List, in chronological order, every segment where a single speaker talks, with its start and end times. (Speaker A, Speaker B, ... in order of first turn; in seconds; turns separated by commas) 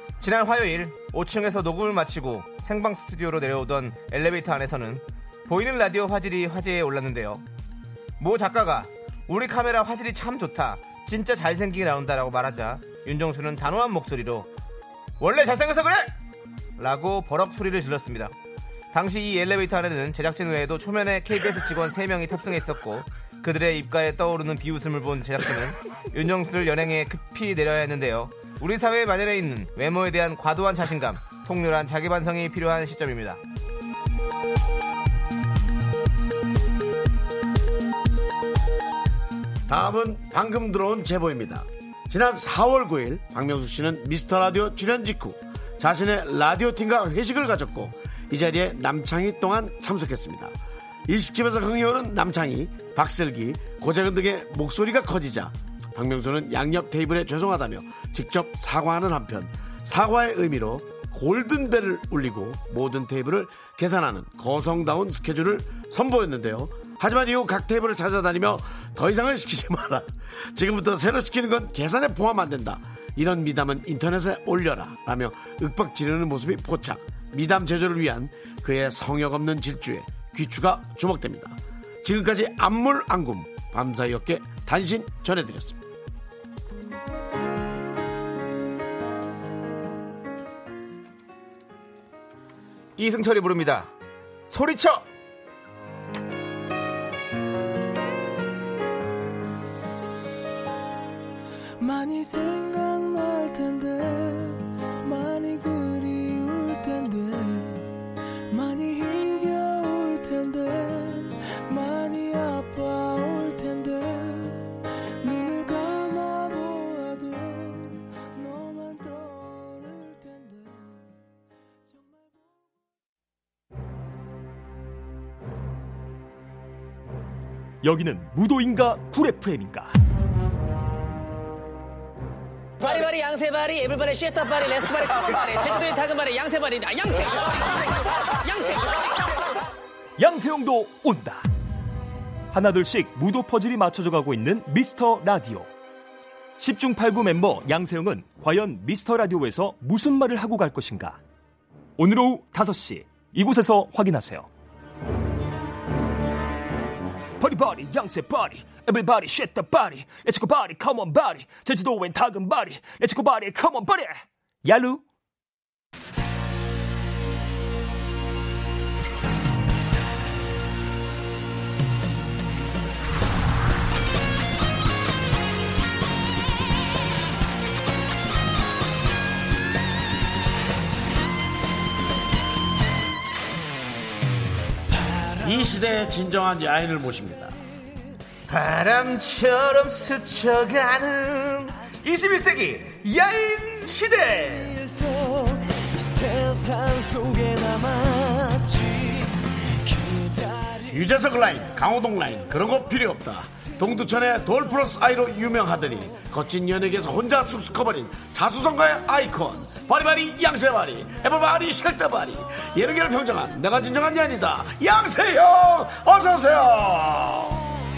Speaker A: 0.2-7.4, Speaker A: 8.2-14.5, Speaker A: 15.2-16.1, Speaker A: 16.8-18.3, Speaker A: 18.9-33.4, Speaker B: 39.7-50.5, Speaker B: 51.1-85.8, Speaker A: 93.0-93.9, Speaker A: 94.5-95.0, Speaker C: 101.8-107.8, Speaker C: 108.5-121.1, Speaker C: 121.9-122.5, Speaker D: 127.8-129.9, Speaker E: 132.8-139.4, Speaker D: 140.2-141.4, Speaker D: 142.5-145.7, Speaker D: 146.6-151.2, Speaker D: 152.0-154.5, Speaker D: 157.4-165.0, Speaker B: 185.4-187.6, Speaker A: 188.5-194.8, Speaker C: 194.9-199.2, Speaker C: 199.8-200.8, Speaker B: 200.8-217.6